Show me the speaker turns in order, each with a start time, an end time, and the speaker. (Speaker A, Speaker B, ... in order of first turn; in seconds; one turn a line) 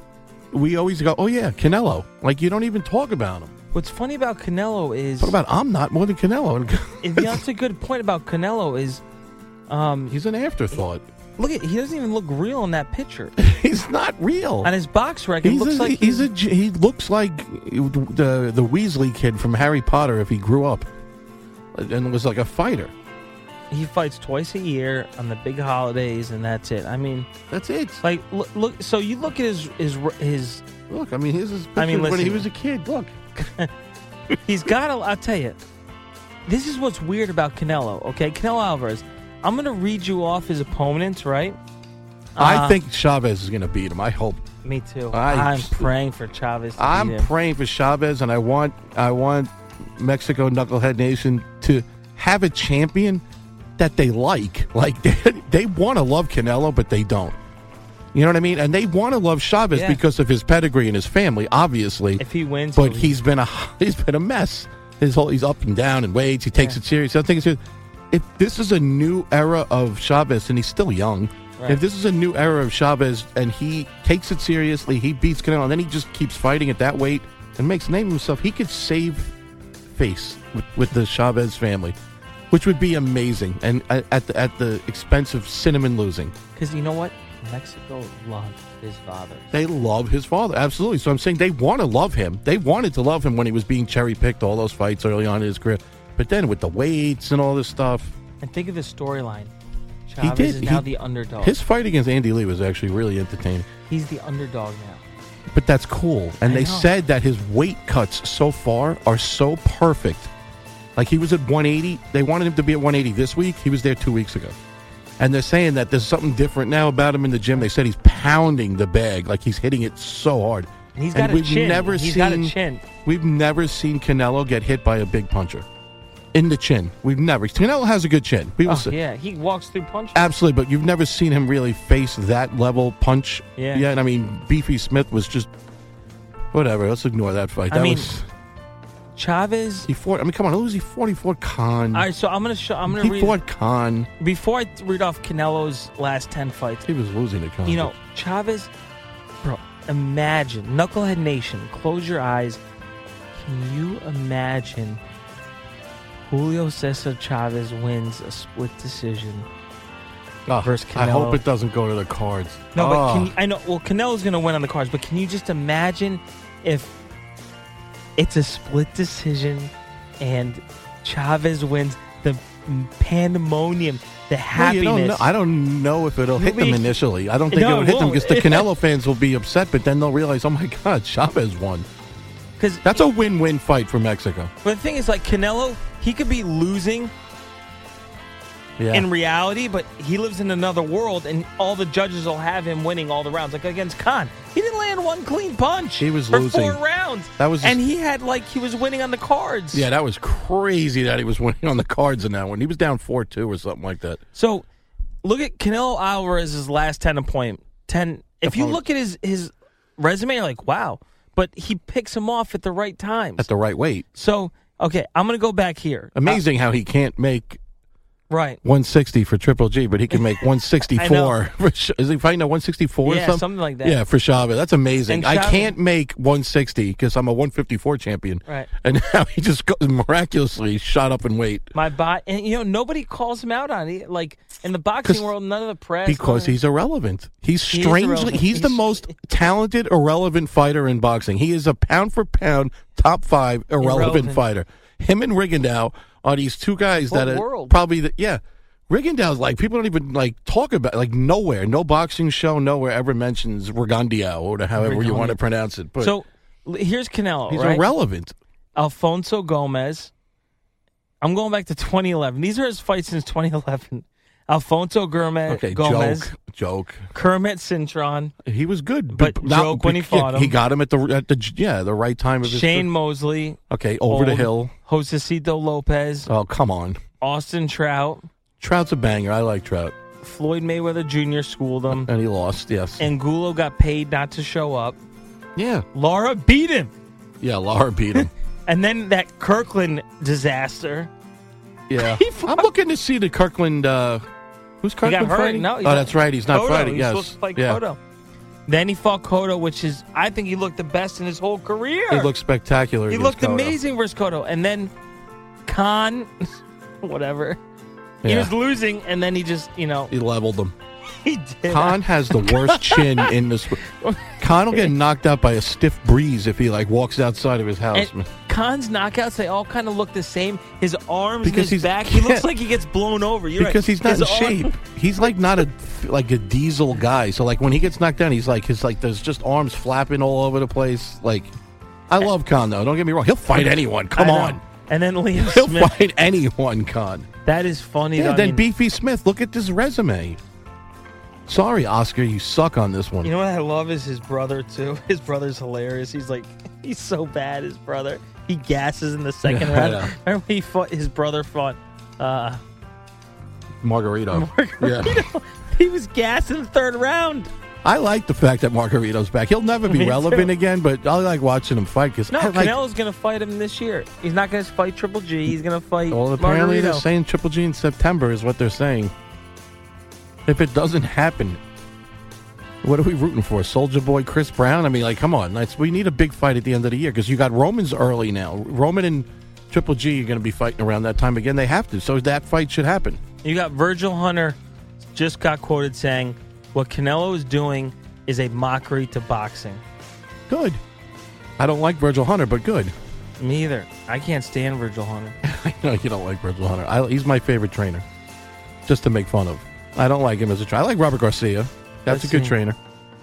Speaker A: 0.5-3.5
Speaker B: 3.7-5.3
Speaker A: 5.2-7.4
Speaker B: 7.0-9.0
Speaker B: 9.7-10.1
Speaker A: 10.1-11.0
Speaker B: 11.4-13.3
Speaker A: 13.4-14.7
Speaker B: 14.6-16.3
Speaker A: 15.4-20.9
Speaker A: 21.7-22.9
Speaker B: 23.7-27.3
Speaker A: 27.5-28.0
Speaker B: 28.0-30.6
Speaker A: 30.9-33.2
Speaker B: 31.8-32.5
Speaker B: 33.4-33.7
Speaker B: 34.5-35.6
Speaker B: 36.5-41.6
Speaker B: 42.4-42.8
Speaker A: 42.4-44.4
Speaker B: 44.6-47.3
Speaker A: 45.1-45.9
Speaker A: 46.8-53.2
Speaker A: 53.8-57.4
Speaker A: 58.1-62.2
Speaker B: 59.7-60.0
Speaker B: 62.2-63.1
Speaker A: 62.8-67.6
Speaker A: 68.1-79.3
Speaker A: 79.9-82.0
Speaker A: 82.5-86.3
Speaker B: 86.5-89.5
Speaker A: 89.5-98.2
Speaker B: 98.4-99.5
Speaker B: 100.1-101.5
Speaker A: 100.2-100.9
Speaker A: 101.4-103.7
Speaker B: 103.9-105.0
Speaker A: 105.5-110.3
Speaker B: 106.4-106.9
Speaker A: 111.0-114.5
Speaker A: 115.2-125.7
Speaker B: 121.0-122.9
Speaker A: 126.3-128.9
Speaker B: 128.6-130.2
Speaker A: 130.1-135.5
Speaker B: 133.6-133.8
Speaker A: 136.5-138.2
Speaker B: 137.7-138.1
Speaker B: 139.2-139.9
Speaker A: 139.8-142.1
Speaker B: 141.9-143.4
Speaker A: 142.9-144.1
Speaker B: 144.2-146.9
Speaker A: 146.8-147.9
Speaker B: 147.7-148.7
Speaker B: 149.4-152.6
Speaker B: 153.3-155.0
Speaker B: 156.2-159.5
Speaker A: 160.5-163.3
Speaker B: 160.6-161.4
Speaker B: 162.7-166.9
Speaker B: 168.2-175.3
Speaker A: 174.5-181.9
Speaker B: 176.4-176.9
Speaker B: 177.5-178.7
Speaker B: 182.6-183.0
Speaker A: 182.8-184.5
Speaker B: 184.6-187.1
Speaker A: 188.8-189.1
Speaker B: 188.9-199.9
Speaker A: 196.0-196.8
Speaker A: 197.4-197.8
Speaker A: 199.7-204.2
Speaker B: 204.3-204.6
Speaker B: 205.2-213.5
Speaker A: 208.4-208.8
Speaker A: 213.4-214.1
Speaker B: 214.1-216.4
Speaker A: 216.1-217.6
Speaker B: 218.3-218.6
Speaker A: 218.6-231.7
Speaker B: 220.9-221.4
Speaker B: 223.0-224.0
Speaker B: 225.1-225.7
Speaker B: 231.7-236.6
Speaker A: 235.0-235.3
Speaker A: 236.1-256.1
Speaker B: 237.7-239.1
Speaker B: 243.8-244.4
Speaker B: 247.1-247.8
Speaker B: 254.7-255.4
Speaker B: 256.0-257.9
Speaker A: 257.5-258.3
Speaker B: 258.8-260.1
Speaker B: 261.2-266.3
Speaker A: 265.5-267.1
Speaker B: 267.1-268.3
Speaker A: 268.4-272.9
Speaker B: 269.1-270.5
Speaker B: 272.4-276.3
Speaker A: 273.7-274.7
Speaker A: 276.2-277.0
Speaker B: 277.2-278.2
Speaker A: 278.6-279.9
Speaker B: 280.2-282.1
Speaker A: 281.9-283.1
Speaker B: 283.0-285.0
Speaker A: 285.6-285.9
Speaker B: 285.9-286.9
Speaker A: 287.4-288.3
Speaker B: 288.7-291.1
Speaker A: 291.9-294.2
Speaker B: 292.0-292.7
Speaker A: 294.8-297.8
Speaker B: 295.0-298.0
Speaker B: 298.7-302.3
Speaker A: 302.1-303.8
Speaker B: 303.1-304.9
Speaker B: 305.6-307.6
Speaker A: 308.2-308.5
Speaker B: 308.2-310.1
Speaker A: 310.1-310.7
Speaker B: 311.2-313.3
Speaker A: 311.7-313.8
Speaker B: 313.8-314.9
Speaker A: 314.4-318.3
Speaker B: 317.9-324.7
Speaker A: 321.4-322.5
Speaker A: 323.6-331.5
Speaker A: 332.1-334.6
Speaker B: 333.5-335.9
Speaker A: 335.3-337.3
Speaker B: 337.4-338.6
Speaker A: 338.2-340.4
Speaker A: 341.5-343.3
Speaker B: 343.2-352.6
Speaker A: 349.4-350.1
Speaker A: 353.8-355.3
Speaker B: 354.3-357.5
Speaker A: 357.8-362.8
Speaker B: 359.9-360.5
Speaker B: 362.3-367.0
Speaker A: 366.1-369.1
Speaker A: 370.4-371.6
Speaker A: 372.8-383.2
Speaker B: 383.4-389.8
Speaker A: 390.5-390.8
Speaker A: 391.6-392.9
Speaker B: 393.4-395.4
Speaker A: 395.4-398.0
Speaker A: 398.9-402.8
Speaker B: 402.1-402.6